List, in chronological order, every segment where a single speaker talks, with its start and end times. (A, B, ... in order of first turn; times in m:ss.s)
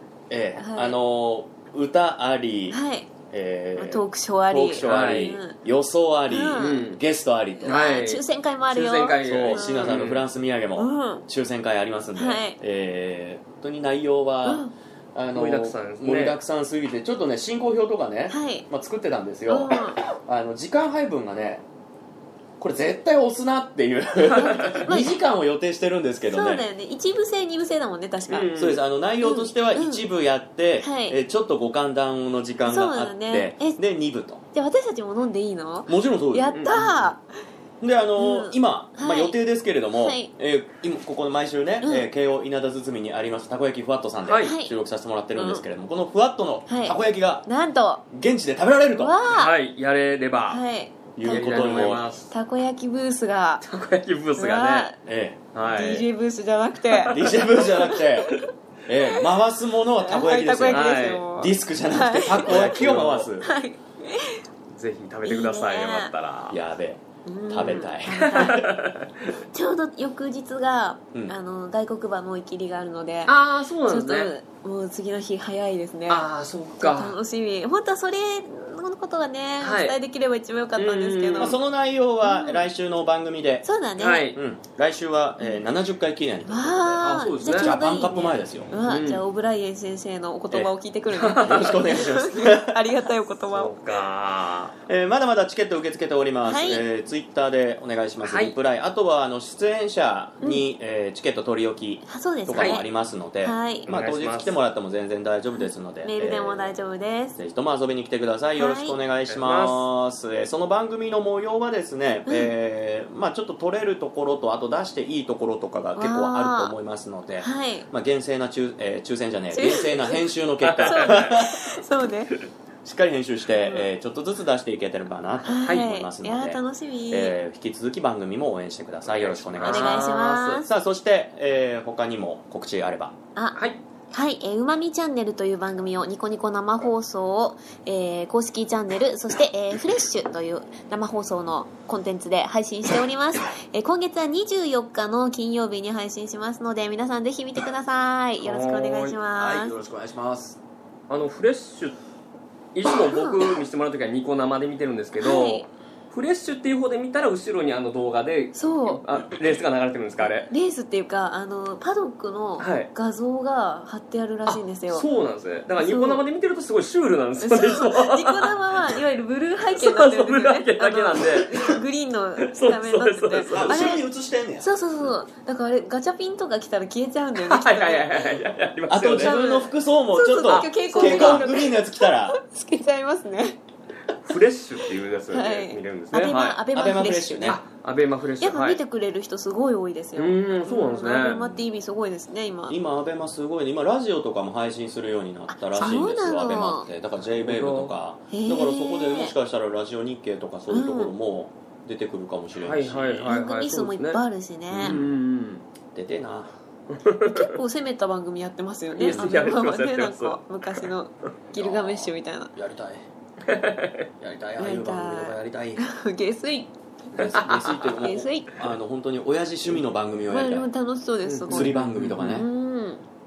0:00.3-0:07.8 A
0:00.6-0:01.0 B
0:02.7-0:03.1 B
0:03.8-0:05.6 B
0:04.8-0:05.4 C
0:06.3-0:06.9 B
0:06.6-0:07.0 C
0:07.6-0:10.0 B
0:07.6-0:10.3 C
0:09.2-0:21.6 A
0:10.8-0:11.2 B
0:12.1-0:12.6 B
0:14.4-0:14.7 B
0:15.3-0:16.4 C
0:18.3-0:18.7 B
0:19.5-0:20.0 B
0:22.6-0:26.6 A
0:24.4-0:24.7 C
0:24.8-0:25.2 B
0:26.3-0:28.5 B
0:28.3-0:28.8 C
0:28.5-0:34.4 A
0:29.2-0:30.1 B
0:30.8-0:31.2 B
0:32.6-0:33.8 B
0:34.5-0:37.2 B
0:35.9-0:37.1 A
0:37.8-0:47.5 A
0:38.2-0:39.4 B
0:39.9-0:40.3 B
0:41.8-0:42.1 B
0:44.2-0:44.5 C
0:44.4-0:44.7 B
0:45.3-0:45.6 B
0:46.7-0:48.0 B
0:48.1-0:49.1 A
0:48.9-0:49.5 B
0:49.3-0:50.6 C
0:50.5-0:53.6 B
0:51.1-0:52.1 A
0:51.3-0:52.3 C
0:53.6-0:54.9 C
0:54.4-0:55.0 B
0:55.0-0:55.6 A
0:55.5-0:56.1 C
0:55.7-0:58.5 B
0:56.8-0:57.7 C
0:57.0-1:03.5 A
0:59.1-0:59.4 B
1:00.0-1:02.8 B
1:00.7-1:01.3 C
1:02.3-1:03.3 C
1:03.4-1:04.4 B
1:04.7-1:06.6 C
1:05.2-1:06.1 B
1:06.5-1:08.3 A
1:07.2-1:08.6 B
1:08.1-1:09.4 C
1:09.5-1:21.6 B
1:13.2-1:14.3 C
1:16.1-1:17.2 C
1:19.6-1:20.0 C
1:20.8-1:21.6 C
1:21.4-1:23.7 A
1:22.2-1:22.6 B
1:23.6-1:24.3 B
1:24.0-1:24.4 C
1:24.3-1:28.7 A
1:25.4-1:25.6 B
1:26.4-1:33.8 B
1:27.0-1:27.8 C
1:28.8-1:29.2 C
1:31.1-1:31.9 C
1:31.4-1:32.7 A
1:33.5-1:34.7 C
1:34.8-1:46.8 A
1:36.4-1:36.8 B
1:38.2-1:38.6 C
1:42.1-1:42.9 B
1:42.5-1:42.8 C
1:43.4-1:43.9 B
1:43.9-1:44.6 C
1:45.6-1:47.4 B
1:47.4-2:01.6 A
1:48.6-1:49.0 B
1:49.3-1:49.9 C
1:56.0-1:56.7 B
1:57.4-1:57.9 B
1:59.5-2:00.3 B
2:00.6-2:01.3 C
2:00.8-2:02.4 B
2:02.8-2:10.0 A
2:03.5-2:03.9 B
2:05.4-2:07.4 B
2:09.0-2:10.6 C
2:09.6-2:10.7 B
2:10.6-2:13.2 A
2:13.5-2:13.8 C
2:14.1-2:29.8 B
2:28.4-2:29.2 C
2:29.3-2:30.6 A
2:31.1-2:32.0 C
2:32.7-2:40.5 C
2:33.1-2:33.4 B
2:35.2-2:35.7 B
2:38.5-2:39.0 B
2:40.2-2:45.1 B
2:42.6-2:42.9 C
2:44.4-2:48.5 C
2:45.8-2:46.2 B
2:47.4-2:54.1 B
2:49.7-2:51.6 C
2:52.4-2:54.0 C
2:53.5-2:54.7 A
2:54.6-2:58.4 B
2:57.3-2:59.4 C
2:58.9-3:02.4 A
2:59.1-3:03.6 B
3:00.4-3:01.5 C
3:04.2-3:08.8 C
3:05.3-3:07.6 B
3:06.7-3:07.6 A
3:08.4-3:12.8 B
3:10.2-3:11.6 C
3:12.7-3:23.3 A
3:15.5-3:16.9 B
3:17.4-3:17.9 C
3:18.3-3:19.3 B
3:20.7-3:21.1 B
3:22.6-3:25.6 C
3:23.2-3:25.0 B
3:24.8-3:25.0 A
3:25.9-3:26.5 A
3:26.9-3:27.5 C
3:27.2-3:32.5 B
3:28.9-3:30.9 C
3:29.0-3:29.6 A
3:31.5-3:33.0 A
3:33.4-3:34.1 C
3:34.2-3:35.8 A
3:34.6-3:37.2 B
3:37.2-3:40.7 A
3:37.3-3:38.1 C
3:38.0-3:38.7 B
3:40.3-3:43.0 B
3:41.2-3:42.4 C
3:41.5-3:42.5 A